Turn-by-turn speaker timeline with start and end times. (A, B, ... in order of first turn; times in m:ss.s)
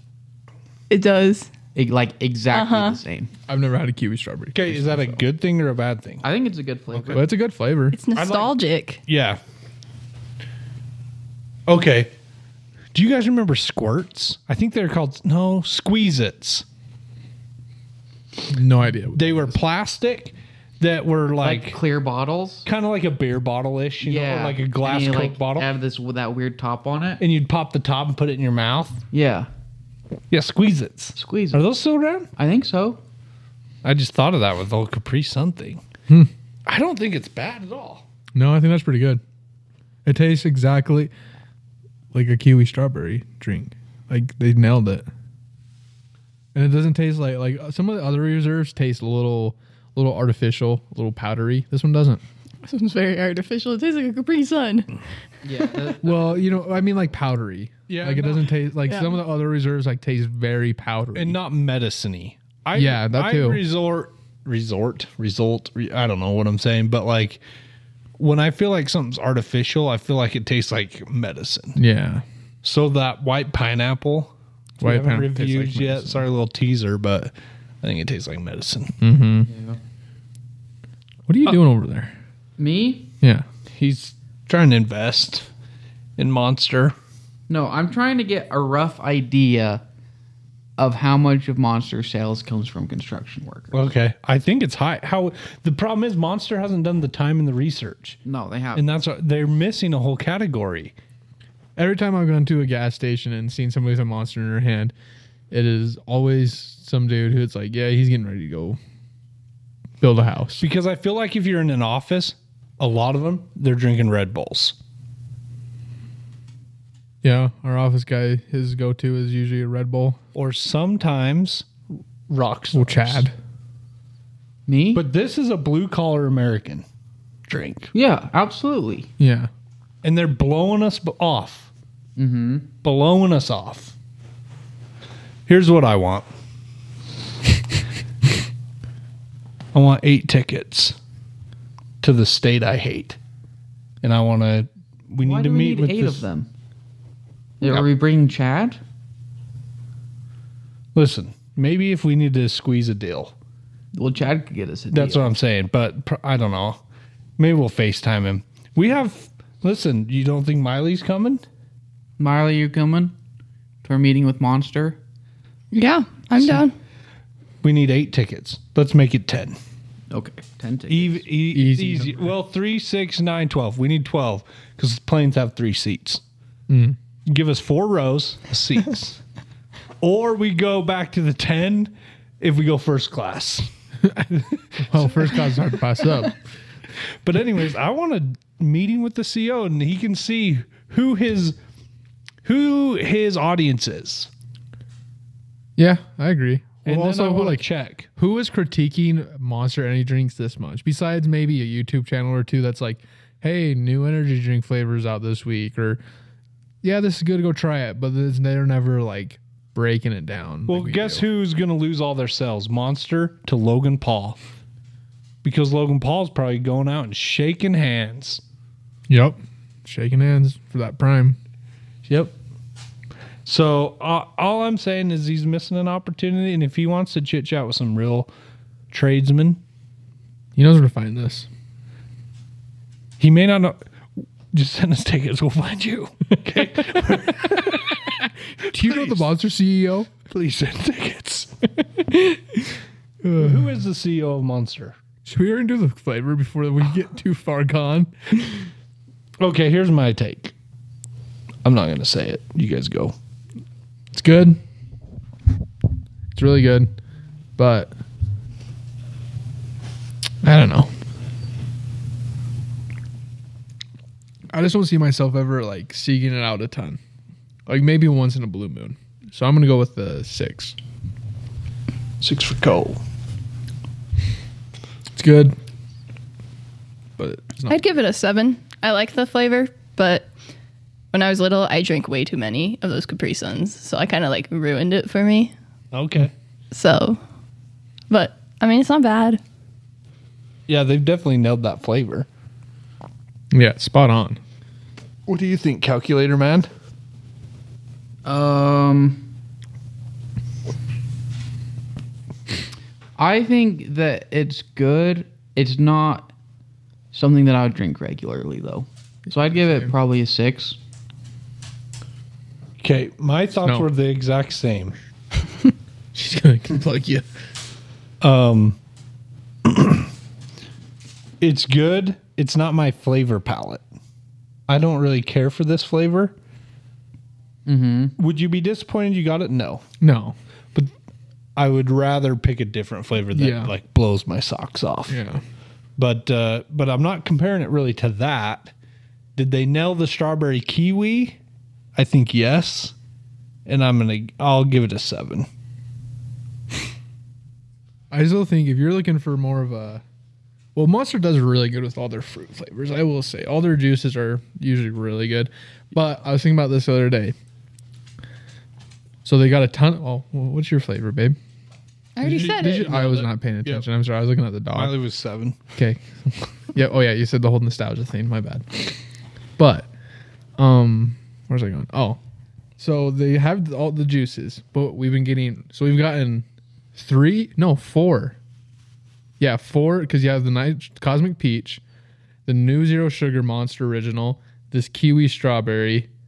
0:00.9-0:01.5 A
0:01.7-0:03.3 B
0:02.5-0:03.0 A
0:03.5-0:05.2 C
0:04.5-0:06.2 D
0:06.2-0:07.3 B
0:06.9-0:07.2 D
0:07.1-0:08.0 C
0:07.9-0:09.0 A
0:08.2-0:08.5 D
0:09.0-0:09.4 D
0:11.7-0:12.1 D
0:12.9-0:16.6 D
0:18.5-0:19.6 C
0:19.1-0:21.8 D
0:21.4-0:22.7 B
0:22.6-0:25.7 D
0:24.0-0:27.2 B
0:27.2-0:29.0 D
0:29.1-0:29.5 B
0:30.3-0:32.3 D
0:31.1-0:31.6 B
0:32.4-0:33.0 B
0:33.8-0:35.8 D
0:36.6-0:38.0 D
0:38.3-0:39.2 C
0:40.0-0:41.1 C
0:42.1-0:45.0 C
0:46.5-0:52.2 C
0:52.6-0:55.0 A
0:55.4-0:56.4 B
0:56.0-1:01.4 C
0:57.9-0:58.6 D
1:01.1-1:07.4 D
1:02.7-1:03.6 C
1:08.2-1:11.8 D
1:11.7-1:12.2 C
1:12.6-1:19.0 D
1:14.8-1:16.2 C
1:19.0-1:19.5 C
1:19.5-1:19.8 B
1:21.3-1:22.1 C
1:22.6-1:23.1 B
1:23.7-1:25.5 D
1:26.2-1:26.9 D
1:27.5-1:29.8 B
1:30.8-1:33.9 B
1:33.7-1:38.2 D
1:38.2-1:38.8 B
1:38.7-1:40.9 D
1:41.8-1:44.9 C
1:45.5-1:48.8 C
1:50.0-1:50.6 C
1:50.6-1:54.8 D
1:57.2-2:00.2 C
2:00.3-2:01.7 D
2:02.3-2:03.3 D
2:02.7-2:03.3 C
2:04.7-2:05.0 B
2:04.9-2:06.8 D
2:07.5-2:07.9 D
2:07.9-2:09.1 B
2:09.2-2:09.5 C
2:10.0-2:11.7 D
2:12.2-2:12.7 B
2:12.8-2:13.9 D
2:15.5-2:16.3 D
2:19.7-2:21.0 D
2:22.0-2:23.2 D
2:24.0-2:26.2 D
2:25.2-2:26.5 B
2:27.6-2:28.8 B
2:30.9-2:33.3 D
2:33.9-2:35.3 B
2:34.9-2:36.8 D
2:37.4-2:41.4 D
2:42.2-2:43.1 B
2:43.8-2:45.0 B
2:45.7-2:46.7 A
2:47.6-2:49.6 D
2:50.1-2:51.2 B
2:50.9-2:56.2 D
2:51.5-2:52.3 C
2:56.7-2:57.0 C
2:57.2-2:59.2 D
3:00.0-3:03.7 D
3:04.0-3:06.4 C
3:04.3-3:05.4 D
3:07.2-3:11.6 D
3:12.4-3:14.3 D
3:15.8-3:17.6 C
3:16.8-3:18.1 D
3:18.2-3:26.0 C
3:26.8-3:31.2 C
3:30.7-3:34.4 D
3:35.4-3:38.4 D
3:39.1-3:41.4 C
3:42.0-3:42.3 D
3:43.4-3:48.3 D
3:48.9-3:49.6 D
3:50.6-3:51.5 C
3:53.2-3:58.1 D
3:58.1-4:00.1 C
3:58.7-3:59.3 D
4:00.3-4:01.5 D
4:02.0-4:03.8 C
4:03.4-4:05.0 D
4:05.2-4:08.7 C
4:09.4-4:10.5 D
4:11.6-4:13.1 D
4:14.1-4:14.6 C
4:16.3-4:16.9 C
4:17.6-4:17.9 C
4:20.4-4:20.9 C
4:24.5-4:27.0 C
4:27.7-4:30.8 C
4:32.2-4:33.0 D
4:35.2-4:35.6 C
4:37.2-4:37.8 C
4:37.7-4:40.3 A
4:41.1-4:45.5 A
4:45.9-4:46.3 D
4:46.7-4:47.2 A
4:48.1-4:49.4 A
4:50.7-4:52.3 D
4:53.5-4:54.4 C
4:55.3-4:56.7 D
4:58.2-4:59.3 B
5:03.2-5:06.3 B
5:07.1-5:10.8 B
5:12.8-5:15.0 D
5:16.1-5:17.2 C
5:18.2-5:18.8 D
5:19.6-5:20.1 D
5:21.4-5:23.8 D
5:24.7-5:26.3 D
5:27.6-5:28.2 B
5:28.2-5:29.8 D
5:30.0-5:30.4 C
5:31.6-5:35.2 D
5:33.3-5:33.7 C
5:35.1-5:35.4 C
5:36.0-5:38.7 D
5:39.4-5:41.4 D
5:41.9-5:42.9 D
5:43.6-5:45.5 D
5:48.1-5:50.0 C
5:50.7-5:57.3 C
5:59.2-6:01.4 C
6:02.2-6:03.0 A
6:02.2-6:04.9 C
6:02.2-6:03.8 D
6:04.7-6:05.6 D
6:05.7-6:09.0 C
6:09.6-6:09.9 C
6:10.6-6:12.2 C
6:12.8-6:18.4 C
6:19.4-6:21.8 C
6:22.4-6:26.1 C